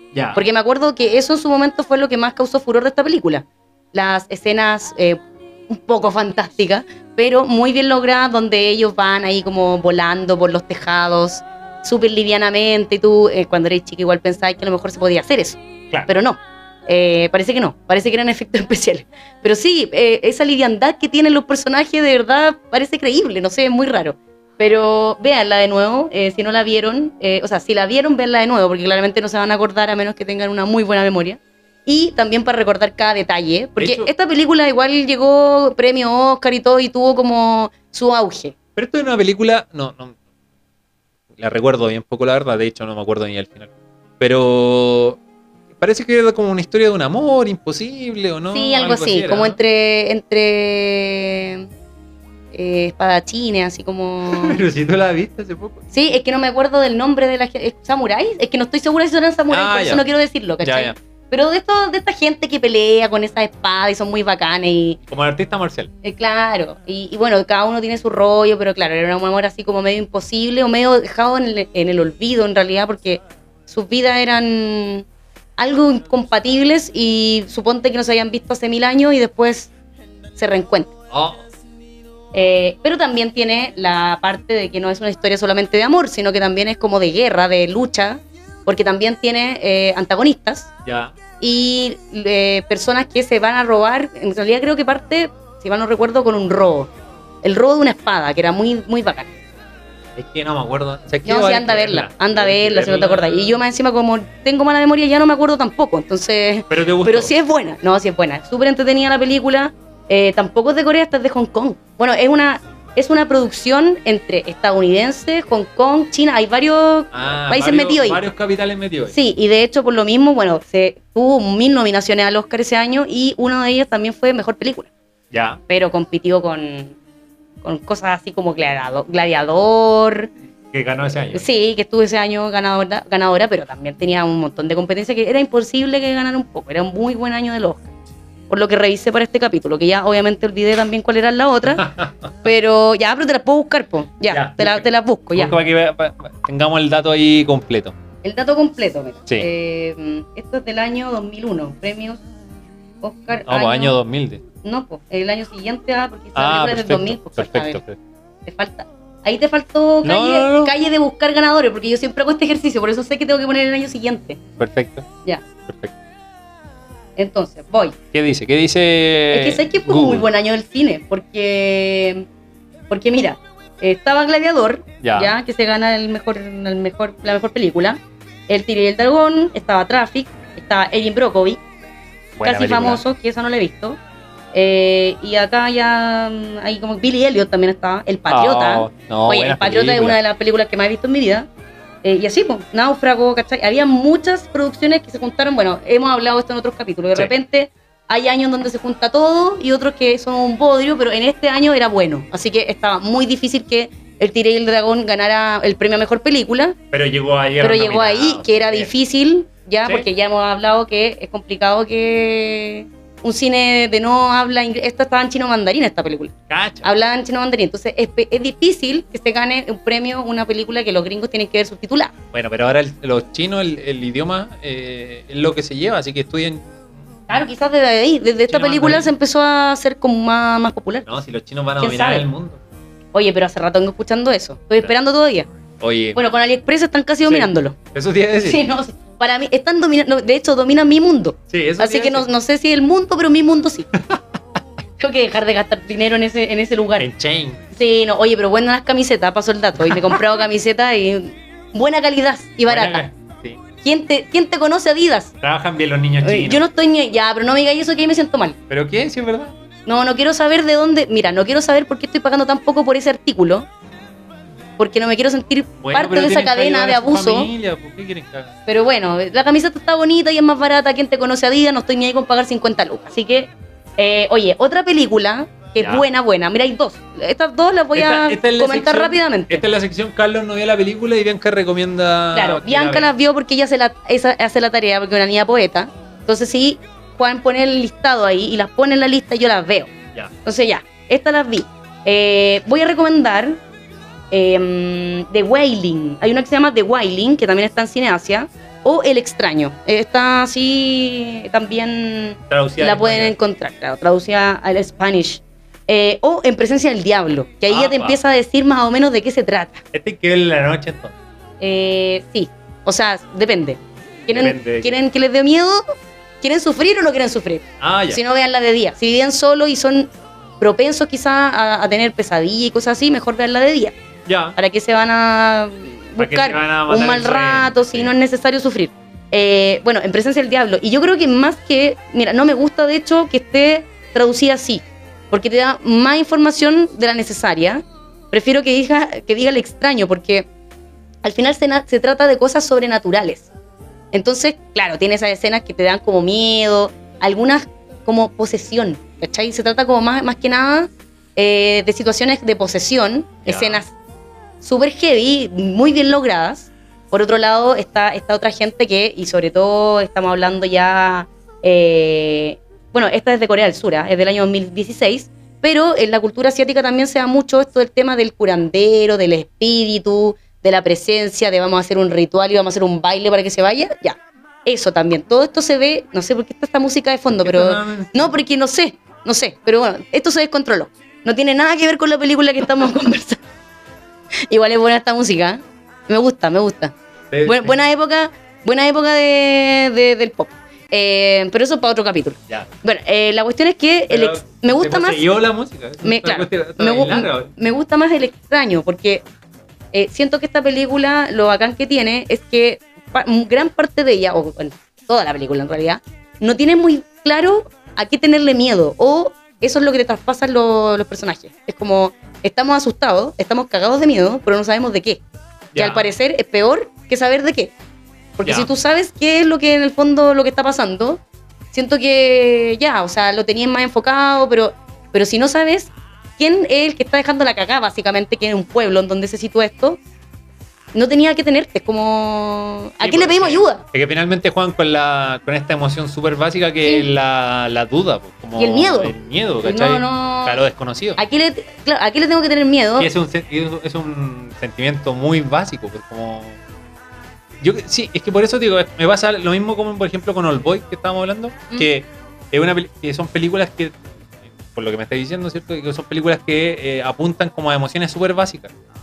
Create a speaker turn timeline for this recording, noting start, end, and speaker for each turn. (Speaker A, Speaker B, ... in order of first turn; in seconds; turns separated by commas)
Speaker A: 0.1-0.4, Speaker B: 0.3-38.5, Speaker A: 33.8-34.1, Speaker A: 38.8-40.1, Speaker A: 41.4-45.2, Speaker A: 45.8-49.6, Speaker B: 48.5-51.7, Speaker B: 52.5-54.6, Speaker A: 54.3-55.9, Speaker B: 55.9-65.0, Speaker A: 59.5-60.0, Speaker A: 60.6-60.9, Speaker A: 65.1-65.9, Speaker B: 66.0-75.0, Speaker B: 75.6-79.7, Speaker B: 80.3-80.9, Speaker A: 81.1-81.4, Speaker B: 82.3-90.7, Speaker A: 90.8-91.1, Speaker B: 91.4-96.9, Speaker B: 97.4-99.3, Speaker A: 100.2-103.6, Speaker B: 101.2-118.2, Speaker A: 106.7-107.3, Speaker A: 117.1-119.1, Speaker B: 119.1-124.9, Speaker A: 125.3-125.6, Speaker B: 125.7-127.0, Speaker B: 127.6-130.3, Speaker A: 130.7-131.5, Speaker B: 131.3-137.9, Speaker B: 138.5-145.5, Speaker A: 141.7-142.3, Speaker A: 144.3-147.9, Speaker B: 148.2-152.2, Speaker B: 153.0-153.9, Speaker A: 153.4-154.4, Speaker B: 154.6-157.8, Speaker A: 156.3-158.0, Speaker B: 158.4-164.4, Speaker A: 160.0-160.7, Speaker A: 164.6-165.1, Speaker A: 165.7-165.9, Speaker B: 167.2-168.0, Speaker A: 168.1-170.3, Speaker B: 169.3-172.3, Speaker B: 172.9-181.6, Speaker A: 175.0-175.3, Speaker A: 182.4-183.0, Speaker B: 182.4-184.0, Speaker B: 184.5-191.5, Speaker A: 188.3-190.2, Speaker B: 192.0-206.8, Speaker A: 206.9-208.9, Speaker B: 207.6-222.1, Speaker A: 216.5-216.9, Speaker A: 222.3-226.7, Speaker B: 227.3-231.1, Speaker A: 228.5-229.1, Speaker A: 231.1-232.6, Speaker B: 231.8-232.3, Speaker B: 233.1-235.5, Speaker A: 235.8-236.2, Speaker B: 236.1-237.8, Speaker A: 237.2-238.6, Speaker B: 238.4-243.9, Speaker A: 241.5-242.3, Speaker B: 245.0-247.1, Speaker A: 247.0-247.6, Speaker B: 247.7-253.1, Speaker A: 249.9-250.2, Speaker A: 252.7-253.6, Speaker B: 253.8-255.3, Speaker A: 255.4-256.6, Speaker B: 256.2-258.6, Speaker A: 258.7-259.5, Speaker B: 259.9-263.7, Speaker B: 264.8-267.5, Speaker A: 265.8-268.5, Speaker B: 268.7-279.6, Speaker A: 275.8-276.0, Speaker A: 277.9-283.1, Speaker B: 282.3-289.9, Speaker B: 290.4-293.6, Speaker B: 294.3-309.8, Speaker A: 302.5-303.3, Speaker A: 307.7-308.2, Speaker A: 309.9-311.1, Speaker B: 311.6-315.8, Speaker A: 314.3-315.0, Speaker B: 316.4-323.9, Speaker A: 317.8-318.2, Speaker A: 324.2-324.6, Speaker B: 324.6-340.5, Speaker A: 326.2-328.1, Speaker B: 341.2-343.5, Speaker B: 344.1-353.9, Speaker A: 353.4-353.8, Speaker B: 354.6-383.4, Speaker A: 377.3-378.4, Speaker B: 384.5-395.2, Speaker A: 387.3-387.7, Speaker A: 394.1-397.5, Speaker B: 396.0-399.2, Speaker B: 399.9-415.2, Speaker A: 415.7-416.1, Speaker B: 415.8-417.7, Speaker B: 418.4-421.2, Speaker A: 418.4-418.7, Speaker B: 421.7-430.0, Speaker B: 430.9-433.8, Speaker A: 433.0-441.2, Speaker B: 436.8-437.1, Speaker B: 438.6-440.6, Speaker B: 441.2-443.1, Speaker A: 443.0-446.6, Speaker A: 447.6-454.0, Speaker A: 454.6-458.7